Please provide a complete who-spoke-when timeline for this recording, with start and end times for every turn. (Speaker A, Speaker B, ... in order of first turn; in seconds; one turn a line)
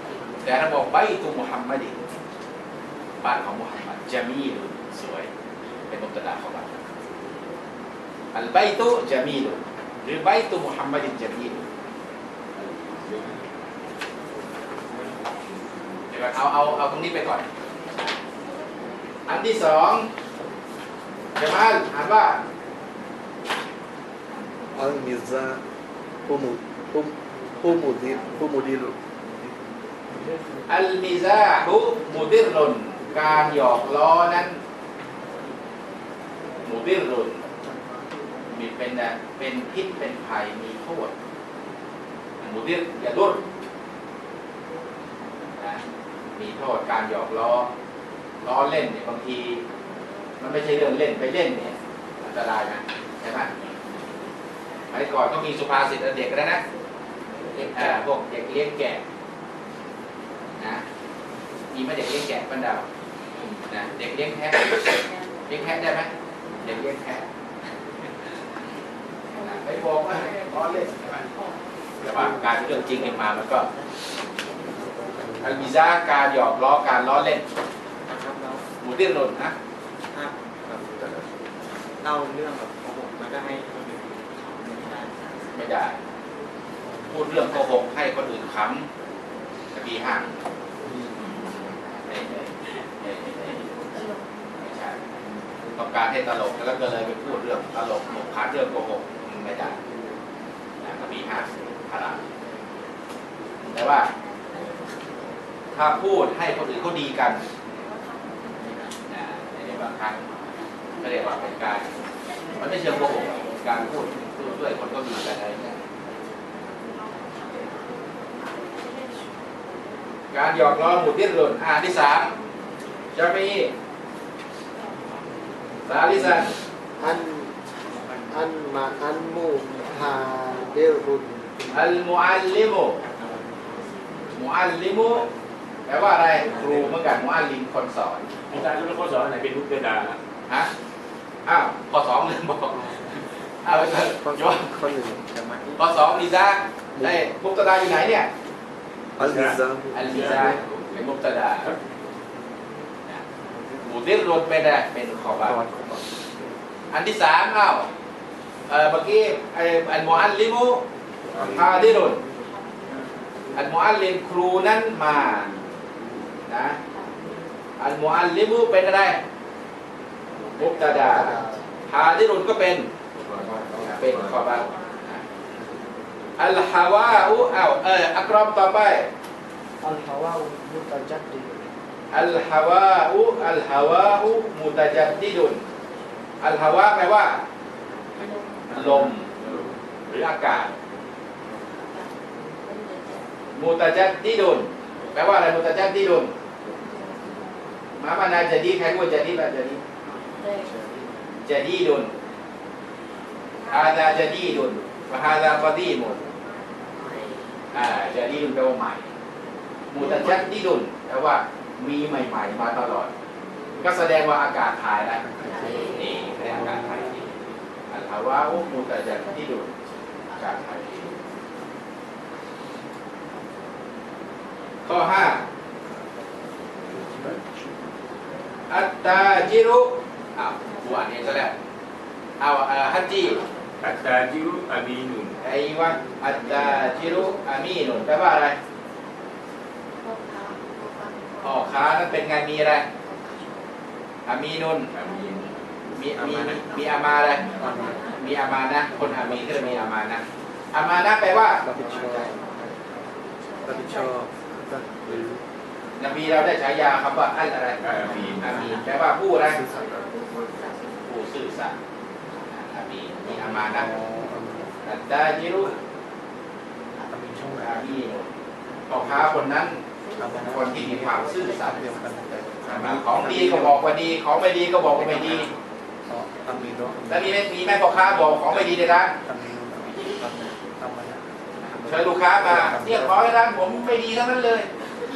Speaker A: 0.4-2.0
Speaker A: 3.2-5.3
Speaker A: 5.9-6.7
Speaker A: 8.3-11.6
Speaker B: 12.6-13.4
Speaker A: 16.1-17.4
Speaker A: 19.3-20.1
Speaker A: 21.4-22.4
Speaker C: 24.7-25.6
Speaker C: 26.3-29.0
Speaker A: 30.7-34.6
Speaker A: 36.6-37.4
Speaker A: 38.5-41.1
Speaker A: 42.4-43.4
Speaker A: 46.4-47.7
Speaker A: 48.4-49.6
Speaker A: 50.4-53.5
Speaker A: 54.9-56.6
Speaker A: 57.7-59.0
Speaker A: 61.7-62.9
Speaker A: 63.7-66.1
Speaker A: 66.6-67.2
Speaker A: 69.4-71.3
Speaker A: 72.0-73.7
Speaker C: 75.3-75.7
Speaker A: 75.4-77.5
Speaker D: 78.0-78.7
Speaker A: 78.8-79.5
Speaker D: 82.0-85.2
Speaker A: 85.5-86.0
Speaker A: 87.1-88.9
Speaker A: 89.7-90.3
Speaker A: 92.1-93.7
Speaker A: 94.6-95.0
Speaker A: 95.8-99.8
Speaker A: 100.8-102.2
Speaker A: 103.7-104.1
Speaker A: 105.7-107.4
Speaker A: 109.1-110.2
Speaker A: 111.0-111.9
Speaker A: 112.6-115.8
Speaker A: 120.3-122.3
Speaker A: 123.1-123.7
Speaker A: 125.9-126.5
Speaker E: 127.0-127.3
Speaker D: 128.0-128.5
Speaker E: 128.3-131.4
Speaker A: 131.7-133.0
Speaker D: 133.2-133.8
Speaker A: 134.3-135.3
Speaker A: 135.9-138.3
Speaker B: 138.5-140.2
Speaker A: 141.5-143.0
Speaker A: 143.6-144.7
Speaker C: 144.2-145.2
Speaker D: 145.3-146.0
Speaker A: 145.8-148.3
Speaker C: 147.0-147.3
Speaker C: 149.2-150.6
Speaker B: 149.2-151.1
Speaker A: 149.9-151.7
Speaker A: 153.8-155.6
Speaker C: 155.4-156.5
Speaker A: 156.9-157.9
Speaker A: 158.7-160.8
Speaker B: 161.3-161.8
Speaker A: 161.4-162.2
Speaker A: 163.6-165.5
Speaker A: 166.5-166.8
Speaker A: 167.8-169.2
Speaker A: 170.6-172.9
Speaker B: 173.2-174.4
Speaker A: 173.8-175.2
Speaker A: 176.4-179.1
Speaker A: 182.1-185.6
Speaker A: 186.4-187.4
Speaker A: 188.7-189.3
Speaker B: 189.4-190.3
Speaker A: 190.1-190.7
Speaker A: 193.6-196.3
Speaker A: 198.0-199.8
Speaker A: 201.4-202.1
Speaker A: 203.7-206.2
Speaker A: 207.7-209.1
Speaker A: 209.9-213.1
Speaker A: 213.8-215.2
Speaker C: 215.2-217.0
Speaker A: 215.9-217.3
Speaker A: 217.9-219.7
Speaker A: 220.3-221.1
Speaker A: 224.8-225.4
Speaker C: 226.9-227.5
Speaker A: 228.7-231.6
Speaker A: 232.4-233.4
Speaker B: 233.8-235.4
Speaker A: 235.4-238.6
Speaker A: 241.4-242.9
Speaker A: 244.3-244.9
Speaker B: 244.9-245.6
Speaker A: 246.0-247.4
Speaker C: 247.6-248.0
Speaker A: 248.2-251.7
Speaker C: 248.9-249.9
Speaker C: 251.6-252.4
Speaker C: 253.7-255.4
Speaker A: 256.0-259.6
Speaker B: 257.8-258.8
Speaker C: 259.5-260.1
Speaker A: 261.1-261.8
Speaker A: 262.5-263.9
Speaker C: 263.7-264.7
Speaker A: 264.8-265.7
Speaker C: 267.1-267.7
Speaker A: 267.6-268.3
Speaker A: 268.9-269.8
Speaker C: 270.2-273.8
Speaker A: 270.4-271.8
Speaker A: 272.7-275.5
Speaker C: 276.1-277.3
Speaker A: 277.1-279.2
Speaker C: 279.2-280.0
Speaker C: 280.8-281.2
Speaker C: 281.8-283.3
Speaker A: 281.9-284.7